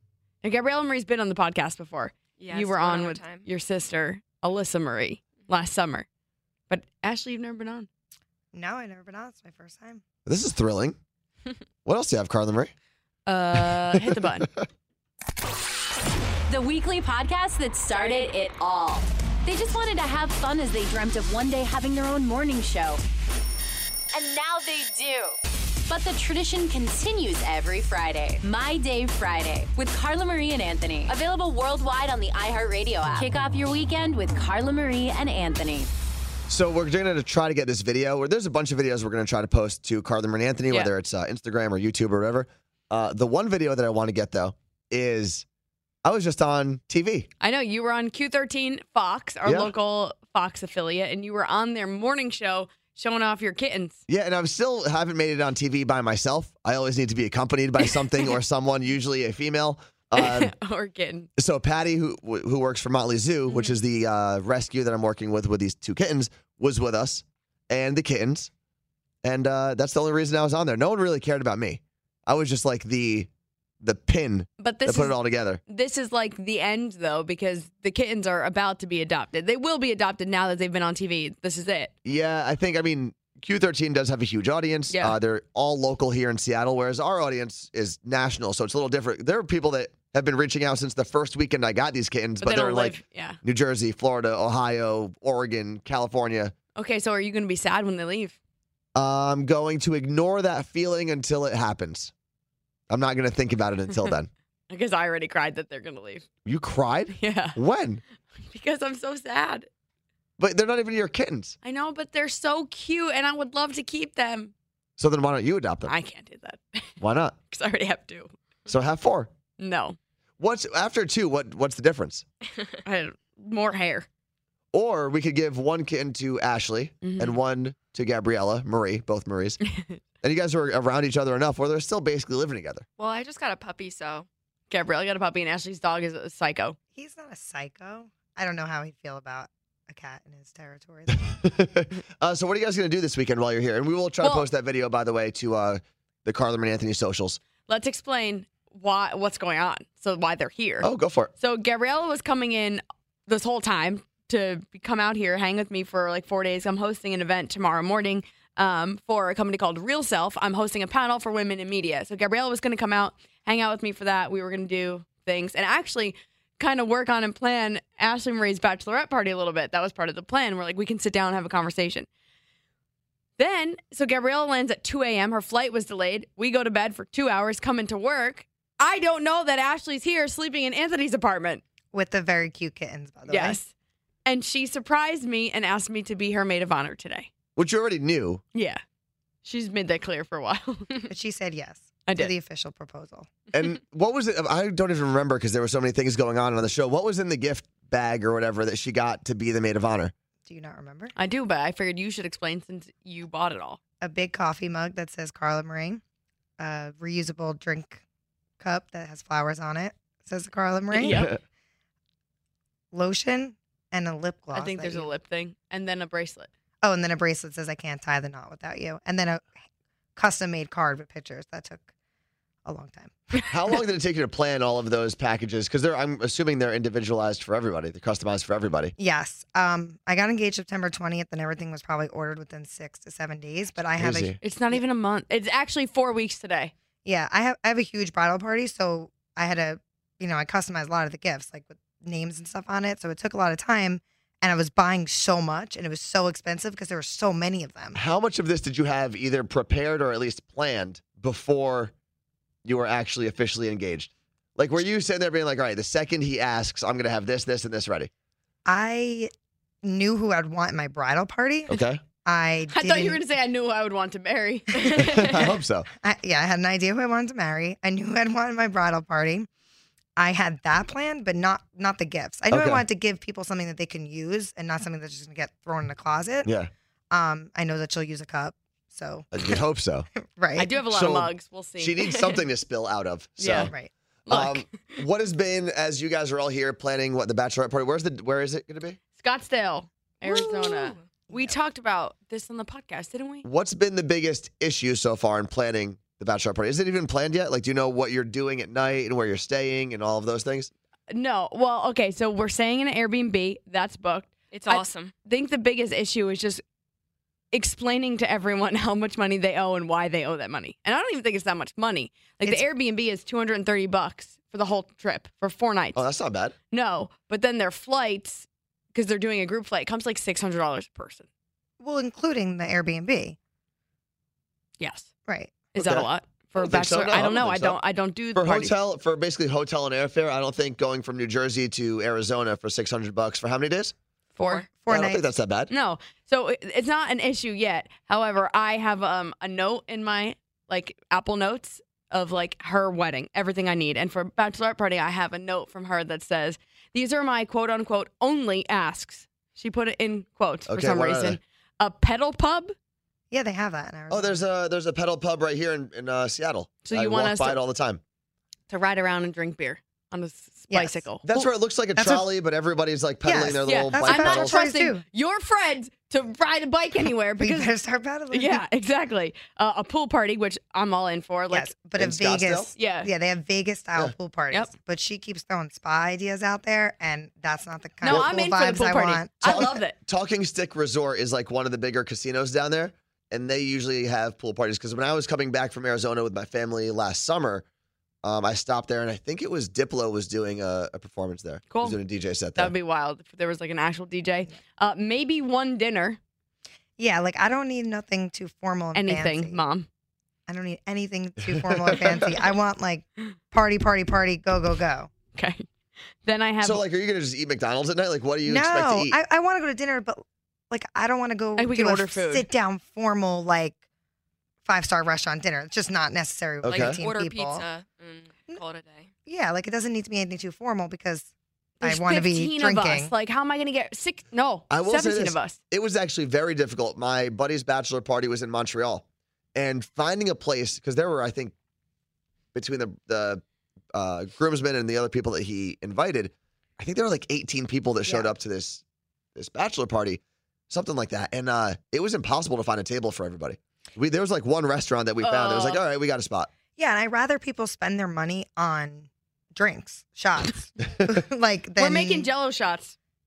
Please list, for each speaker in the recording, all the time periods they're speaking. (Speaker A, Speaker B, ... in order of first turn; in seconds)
Speaker A: 0.4-6.0, 6.7-7.9, 13.2-14.5, 47.4-54.0, 60.2-61.3, 63.5-63.8, 74.6-81.9, 84.9-85.2, 92.4-93.4, 96.8-98.4, 104.7-106.3, 107.2-107.6, 108.5-109.7, 111.6-114.5, 115.9-116.9, 117.5-118.3, 119.6-120.0, 122.8-124.1, 127.0-127.3, 134.7-136.8, 147.7-150.9, 151.4-172.1, 173.4-181.6, 183.3-183.7, 184.2-187.3, 188.5-188.8, 189.4-191.0, 192.1-192.3, 201.1-203.8, 210.9-211.3, 214.5-216.5, 234.4-236.7, 262.7-265.5, 280.6-282.2, 283.4-283.7, 284.3-285.0, 289.2-293.4, 301.1-306.6, 307.5-316.0, 316.7-321.2, 324.8-325.1, 325.7-328.7, 334.4-334.7, 335.7-352.7, 356.8-357.6, 358.7-361.5, 363.6-367.7, 368.3-371.7, 372.8-373.1, 378.0-379.9, 391.7-392.0, 392.6-396.2, 398.9-399.9, 405.3-405.6, 406.2-406.8, 411.6-412.4, 421.8-425.6, 445.2-445.8, 451.8-452.9
Speaker B: 2.4-3.5, 133.0-134.3, 290.2-291.1, 304.5-305.1, 334.4-334.6, 416.7-419.1
Speaker C: 8.5-10.0, 136.9-141.2, 181.9-183.6, 191.1-193.3, 200.4-201.1, 204.0-206.0, 206.6-208.0, 208.6-211.2, 212.9-215.1, 216.8-219.5, 220.2-221.9, 222.6-223.2, 229.0-234.8, 237.0-248.0, 258.6-259.3, 259.8-263.2, 264.8-265.1, 266.0-269.5, 270.2-276.5, 277.1-279.6, 280.2-280.7, 283.6-283.9, 291.3-291.6, 321.8-323.4, 325.3-325.6, 334.8-335.2, 353.3-354.4, 360.7-361.1, 361.9-362.2, 363.2-365.0, 367.4-368.6, 371.5-379.8, 397.0-399.6, 400.5-405.1, 408.4-413.8, 414.6-417.6, 419.3-421.3, 421.8-423.1, 438.0-438.3, 446.8-452.3
Speaker D: 10.2-11.0, 11.8-12.7, 13.6-14.7, 36.5-45.4, 46.0-47.3, 49.4-49.7, 54.1-60.5, 61.4-68.5, 69.2-73.3, 73.8-75.6, 82.0-96.5, 98.9-102.1, 102.9-104.3, 106.4-108.0, 110.4-111.5, 115.0-115.9, 117.0-117.3, 118.7-119.3, 120.4-122.2, 124.7-129.6, 130.2-132.8, 141.2-147.4, 150.8-151.3, 187.6-188.4, 193.5-200.1, 211.0-211.4, 223.5-228.9, 234.0-234.4, 247.9-251.9, 252.6-258.1, 261.7-262.0, 264.9-265.9, 272.5-272.8, 276.4-276.7, 279.3-280.1, 280.9-283.7, 284.3-289.0, 293.4-300.7, 315.9-316.5, 325.8-327.8, 328.3-333.9, 334.9-335.7, 350.7-351.4, 354.1-358.0, 361.2-364.5, 372.0-372.7, 379.4-387.6, 388.2-392.7, 401.4-402.4, 406.6-409.1, 416.6-417.0, 424.7-429.0, 429.5-431.5, 432.5-433.4, 433.9-438.8, 439.3-446.5
Speaker E: 16.5-23.0, 24.1-35.9